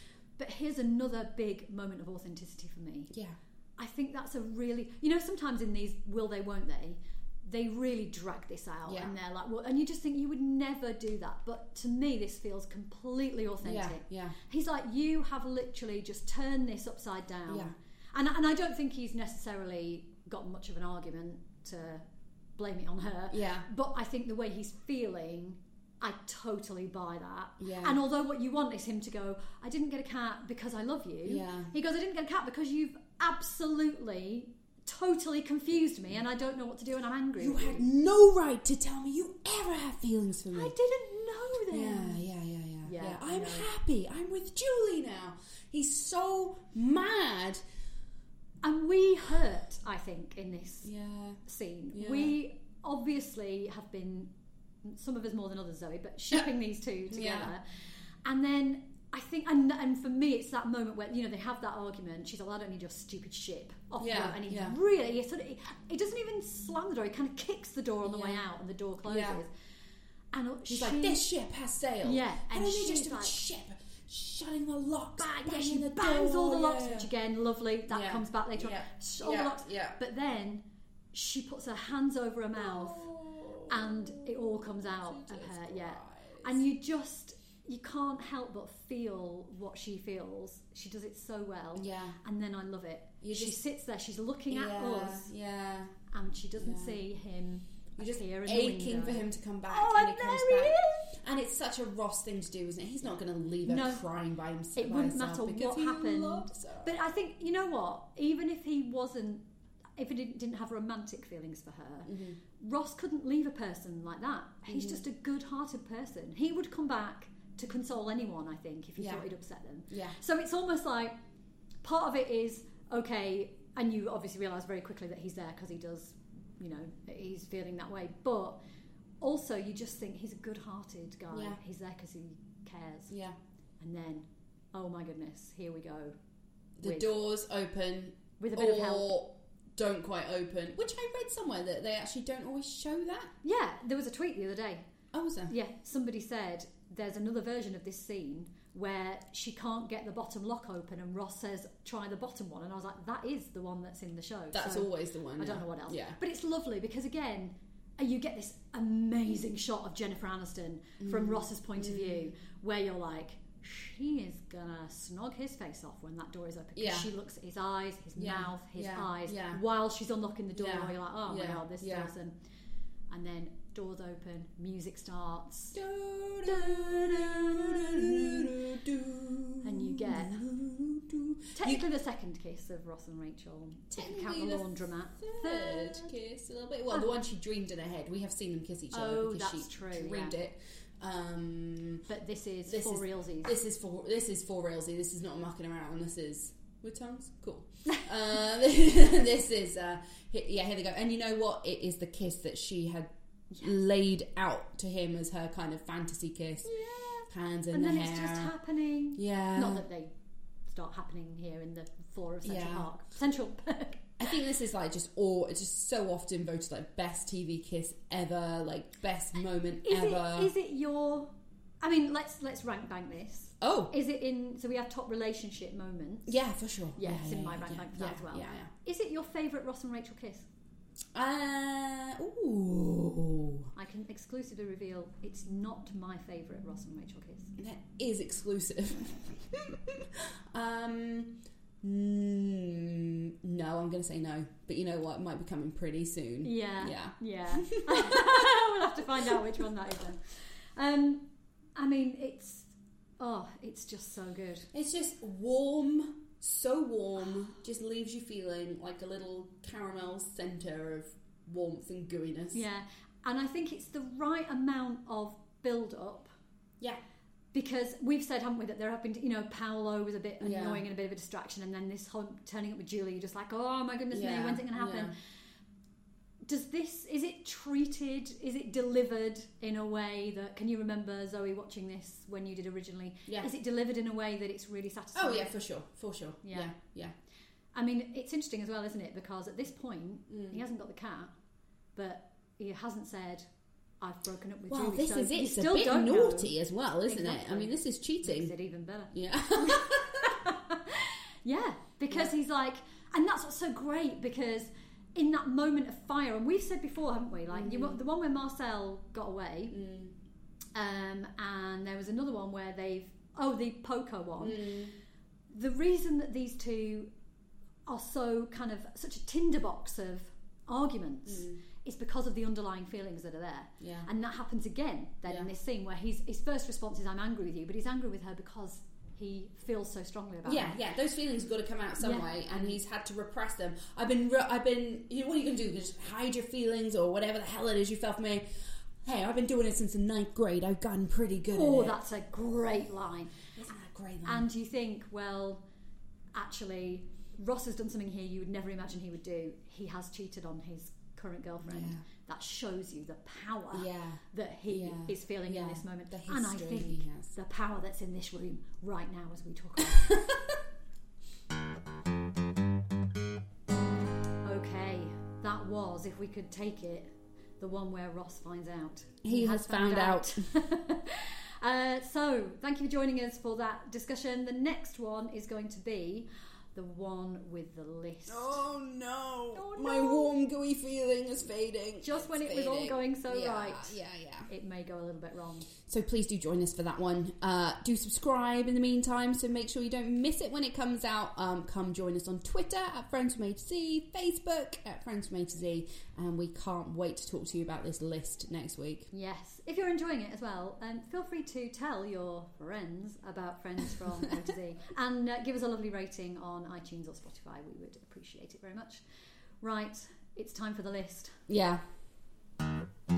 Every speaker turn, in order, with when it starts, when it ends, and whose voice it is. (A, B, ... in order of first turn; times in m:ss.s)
0:00.4-0:03.1 A
0:03.1-0:03.4 B
0:03.8-0:22.0 A
0:08.9-0:09.1 B
0:13.6-0:14.4 B
0:17.5-0:17.7 B
0:22.6-0:37.8 A
0:23.3-0:23.6 B
0:27.6-0:28.0 B
0:31.2-0:31.7 B
0:37.4-0:40.7 B
0:40.5-0:42.2 A
0:41.7-0:47.6 B
0:42.8-0:43.7 A
0:48.6-0:50.9 A
0:50.8-0:51.4 B
0:51.4-0:54.3 A
0:51.9-0:52.3 B
0:54.8-0:57.6 A
0:57.1-0:57.5 B
0:58.2-1:09.5 A
1:04.0-1:04.8 B
1:08.0-1:08.4 B
1:09.0-1:09.4 B
1:10.3-1:11.2 A
1:10.7-1:17.1 B
1:12.0-1:13.4 A
1:15.2-1:23.1 A
1:17.9-1:20.0 B
1:22.6-1:26.6 B
1:23.7-1:35.3 A
1:31.8-1:32.2 B
1:33.2-1:33.6 B
1:34.5-1:36.0 B
1:36.1-1:41.1 A
1:36.6-1:37.0 B
1:38.0-1:47.0 B
1:43.6-1:44.0 A
1:44.8-1:49.4 A
1:50.0-2:01.1 A
1:52.0-1:52.4 B
1:54.7-1:55.0 B
1:59.0-1:59.2 B
1:59.9-2:00.2 B
2:01.8-2:08.6 A
2:09.2-2:13.1 A
2:11.3-2:11.6 B
2:13.1-2:13.3 B
2:13.8-2:16.1 A
2:16.8-2:23.3 B
2:16.8-2:17.2 A
2:18.4-2:19.2 A
2:23.4-2:24.9 A
2:25.1-2:25.5 B
2:25.5-2:52.3 A
2:34.5-2:36.2 B
2:41.0-2:42.3 B
2:46.8-2:47.1 B
2:48.2-2:49.6 B
2:50.5-2:52.1 B
2:53.1-2:55.8 A
2:55.7-3:01.9 B
2:56.4-2:58.6 A
2:59.6-3:00.4 A
3:01.5-3:06.1 A
3:03.9-3:12.0 B
3:08.9-3:10.4 A
3:12.1-3:13.6 A
3:12.6-3:26.7 B
3:26.6-3:30.1 A
3:27.3-3:28.5 B
3:29.1-3:29.8 B
3:30.7-3:34.4 A
3:32.4-3:32.9 B
3:34.2-3:40.5 B
3:39.8-3:41.3 A
3:41.8-3:46.4 A
3:43.6-3:43.9 B
3:46.2-3:48.7 B
3:47.0-3:50.5 A
3:51.1-3:53.7 B
3:53.7-3:57.5 A
3:57.6-4:08.7 B
4:06.4-4:14.7 A
4:14.7-4:22.6 B
4:22.5-4:26.3 A
4:27.5-4:35.1 A
4:30.4-4:30.8 B
4:34.1-4:35.1 B
4:36.4-4:45.6 A
4:45.1-4:47.1 B
4:46.4-4:46.7 A
4:47.7-4:51.3 A
4:50.3-4:50.6 B
4:52.0-4:53.4 A
4:54.0-4:56.5 A
4:54.7-4:58.5 B
4:57.0-5:09.7 A
4:59.1-5:00.4 B
5:07.5-5:08.0 B
5:09.7-5:10.1 B
5:10.7-5:14.8 A
5:14.4-5:14.9 B
5:15.5-5:17.1 A
5:17.9-5:30.8 A
5:21.3-5:21.6 B
5:23.8-5:24.1 B
5:30.4-5:42.0 B
5:32.0-5:32.7 A
5:41.5-5:43.4 A
5:43.6-5:44.5 B
5:44.2-5:45.6 A
5:46.3-6:00.2 A
5:51.6-5:52.0 B
5:53.7-5:57.3 B
5:59.8-6:00.6 B
6:04.4-6:18.6 A
6:09.2-6:10.5 B
6:18.3-6:24.5 B
6:19.5-6:20.3 A
6:22.0-6:24.0 A
6:24.5-6:25.7 A
6:25.8-6:39.1 B
6:39.1-6:49.0 A
6:49.6-6:51.4 A
6:51.5-6:51.8 B